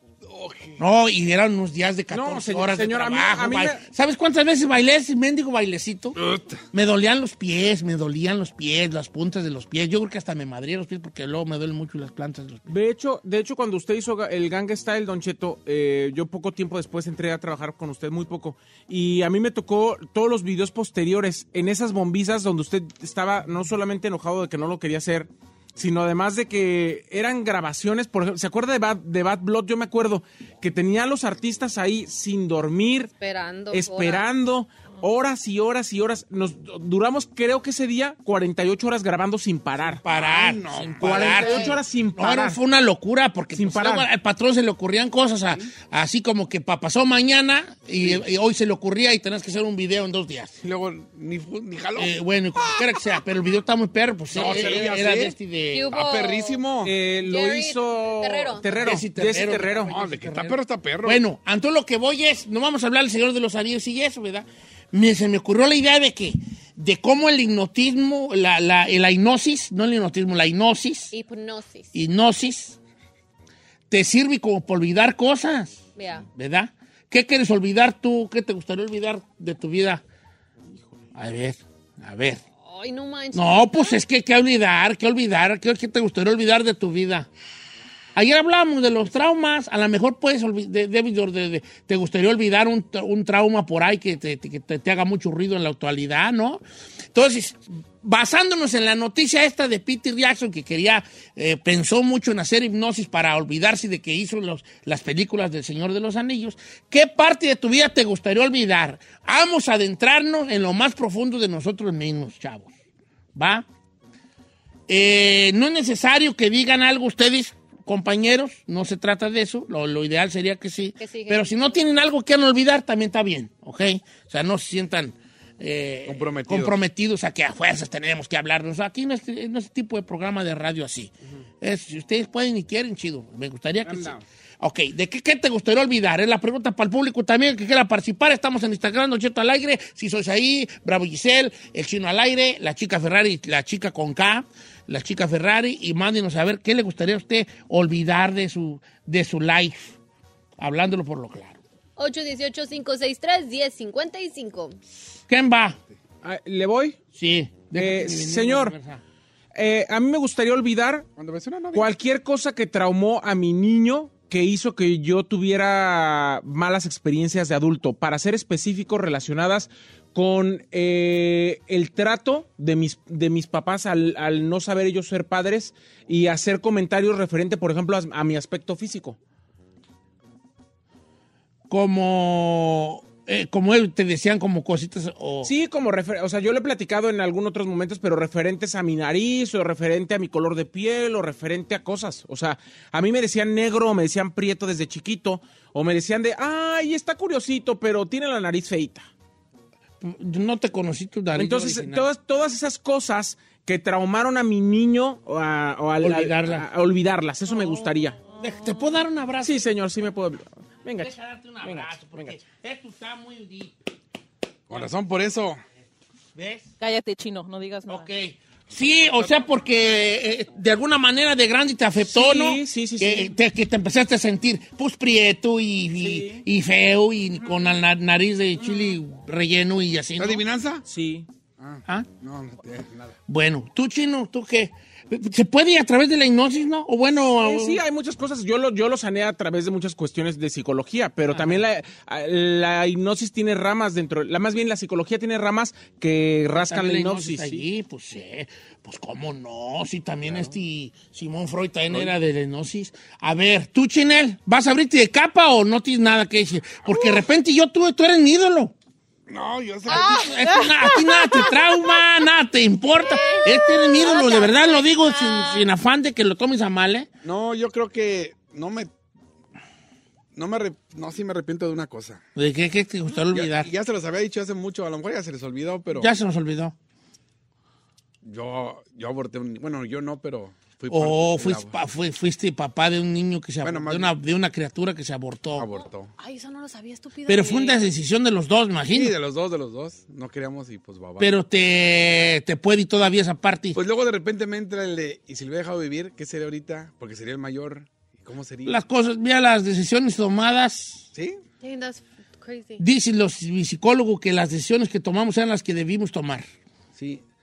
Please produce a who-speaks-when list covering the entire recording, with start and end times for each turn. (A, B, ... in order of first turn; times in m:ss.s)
0:00.3-0:00.8 A
0:00.8-0:06.2 B
0:02.1-0:03.9 C
0:06.2-0:06.6 A
0:06.7-0:12.7 B
0:12.7-0:33.1 C
0:33.2-0:34.3 D
0:33.7-0:40.0 C
0:40.0-0:50.6 B
0:40.1-0:41.6 A
0:40.8-0:42.6 C
0:41.4-0:41.8 D
0:43.6-0:44.1 C
0:50.6-0:52.1 A
0:52.0-0:55.9 B
0:52.7-0:53.1 A
0:54.3-0:55.3 A
0:55.7-0:56.6 D
0:55.9-0:56.9 A
0:56.8-1:00.0 C
0:57.3-0:58.7 D
0:58.7-1:11.1 B
0:59.9-1:01.2 A
1:11.1-1:12.0 D
1:11.9-1:12.8 B
1:13.9-1:20.0 B
1:16.0-1:16.3 D
1:21.2-1:22.4 B
1:22.6-1:24.0 D
1:23.3-1:27.3 B
1:28.2-1:36.6 B
1:37.1-1:52.7 B
1:53.4-1:53.6 B
1:54.9-2:30.0 B
2:01.0-2:01.8 D
2:06.1-2:06.8 A
2:13.8-2:14.2 C
2:30.6-2:31.6 B
2:32.0-2:34.8 D
2:35.3-2:35.8 B
2:36.2-2:37.0 C
2:37.2-2:39.0 B
2:37.7-2:38.8 C
2:39.6-2:41.1 C
2:41.2-2:42.0 A
2:41.7-2:59.2 C
3:01.7-3:05.5 B
3:05.4-3:19.1 C
3:20.0-3:22.1 B
3:21.4-3:28.2 C
3:26.0-3:26.7 B
3:28.4-3:29.7 B
3:29.4-3:32.4 C
3:31.0-3:33.8 B
3:34.7-3:35.6 A
3:36.4-3:36.7 B
3:36.8-3:38.1 E
3:37.9-3:50.4 B
3:42.0-3:43.4 C
3:46.0-3:46.5 C
3:48.6-3:48.9 C
3:50.2-3:50.8 A
3:50.8-3:51.3 C
3:51.6-3:53.2 A
3:53.3-3:57.8 B
3:57.4-4:07.7 C
4:01.3-4:01.6 B
4:06.6-4:18.7 B
4:19.3-4:20.7 A
4:19.9-4:27.1 B
4:19.9-4:21.5 E
4:23.0-4:25.7 D
4:27.2-4:28.9 A
4:30.4-4:32.2 A
4:32.4-4:33.7 B
4:33.3-4:36.1 A
4:35.9-4:36.8 B
4:38.2-4:41.8 A
4:40.9-4:45.7 B
4:43.6-4:44.1 A
4:45.6-4:46.1 A
4:45.7-4:47.9 D
4:47.3-4:49.2 B
4:48.9-4:51.3 A
4:51.2-4:53.8 B
4:53.8-4:58.8 A
4:58.7-5:01.1 B
5:01.1-5:01.4 A
5:01.6-5:02.8 D
5:02.8-5:06.5 B
5:07.0-5:07.2 A